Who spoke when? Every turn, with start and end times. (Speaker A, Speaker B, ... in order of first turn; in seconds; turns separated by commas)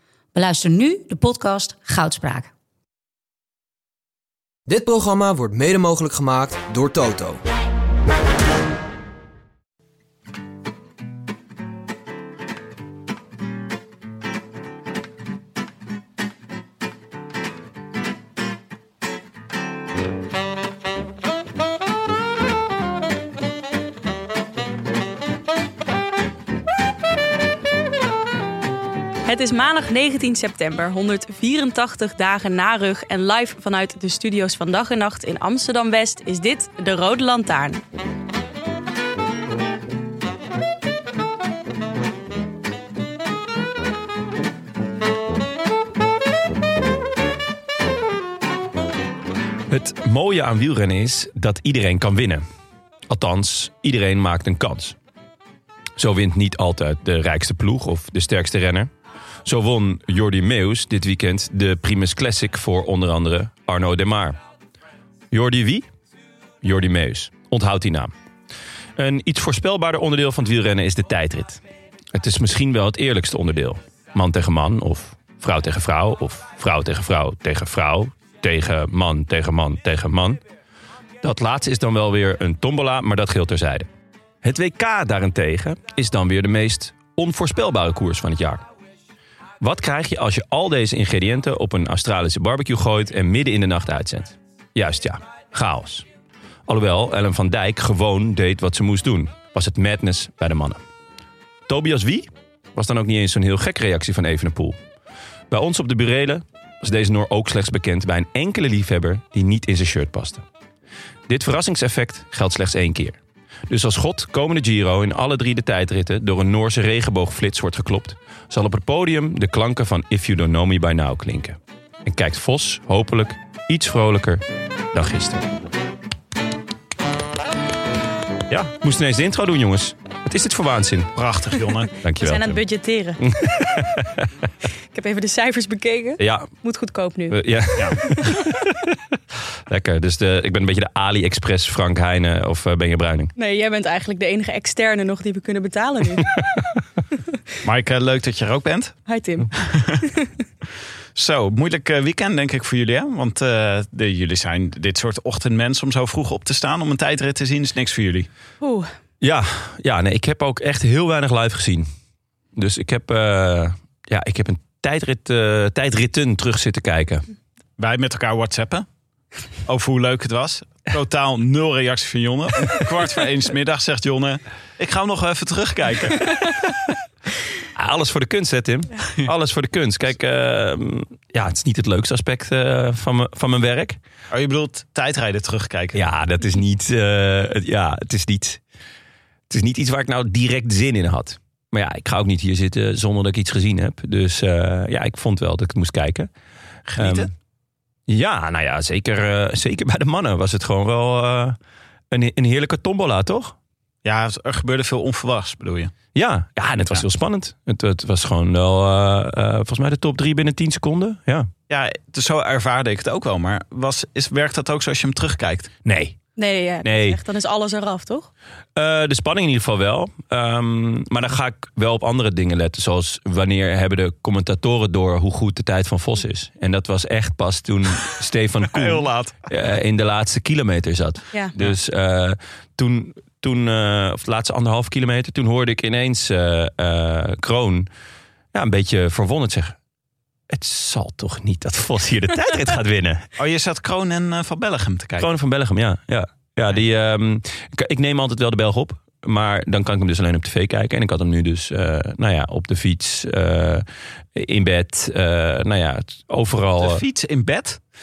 Speaker A: 0.3-2.5, Speaker B: 4.7-7.4, Speaker C: 29.2-37.8, Speaker D: 49.7-52.4, Speaker D: 53.1-55.0, Speaker D: 56.0-58.9, Speaker D: 59.5-64.4, Speaker D: 65.3-65.9, Speaker D: 66.6-68.1, Speaker D: 69.0-71.6, Speaker D: 72.1-80.4, Speaker D: 81.2-83.9, Speaker D: 84.4-88.6, Speaker D: 89.6-96.1, Speaker D: 96.7-100.8, Speaker D: 101.7-104.8, Speaker D: 105.5-110.4, Speaker D: 111.3-125.5, Speaker D: 128.5-131.1, Speaker E: 131.2-131.9, Speaker D: 132.0-132.6, Speaker C: 132.2-133.2, Speaker D: 133.2-134.3, Speaker C: 134.9-137.4, Speaker D: 136.2-136.5, Speaker D: 137.3-139.0, Speaker C: 138.0-138.3, Speaker D: 139.7-143.3, Speaker C: 143.4-146.3, Speaker E: 147.6-149.0, Speaker C: 149.1-149.5, Speaker E: 149.6-150.0, Speaker C: 150.0-150.3, Speaker E: 151.2-158.3, Speaker C: 158.6-158.9, Speaker D: 159.2-161.9, Speaker D: 162.6-167.2, Speaker E: 167.8-168.9, Speaker E: 169.7-176.4, Speaker D: 177.8-184.0, Speaker E: 184.3-186.1, Speaker D: 185.9-188.6, Speaker D: 189.5-196.3, Speaker E: 196.9-197.3, Speaker D: 197.0-197.3, Speaker D: 198.1-201.6, Speaker D: 202.1-203.6, Speaker E: 204.0-205.9, Speaker D: 206.1-211.5, Speaker E: 211.7-215.7, Speaker D: 215.8-216.2, Speaker C: 216.4-218.3, Speaker D: 216.8-217.2, Speaker D: 218.8-237.9, Speaker E: 228.7-229.5, Speaker D: 238.5-239.8, Speaker D: 240.5-243.3, Speaker E: 243.4-245.3, Speaker D: 245.2-257.0, Speaker E: 256.8-257.8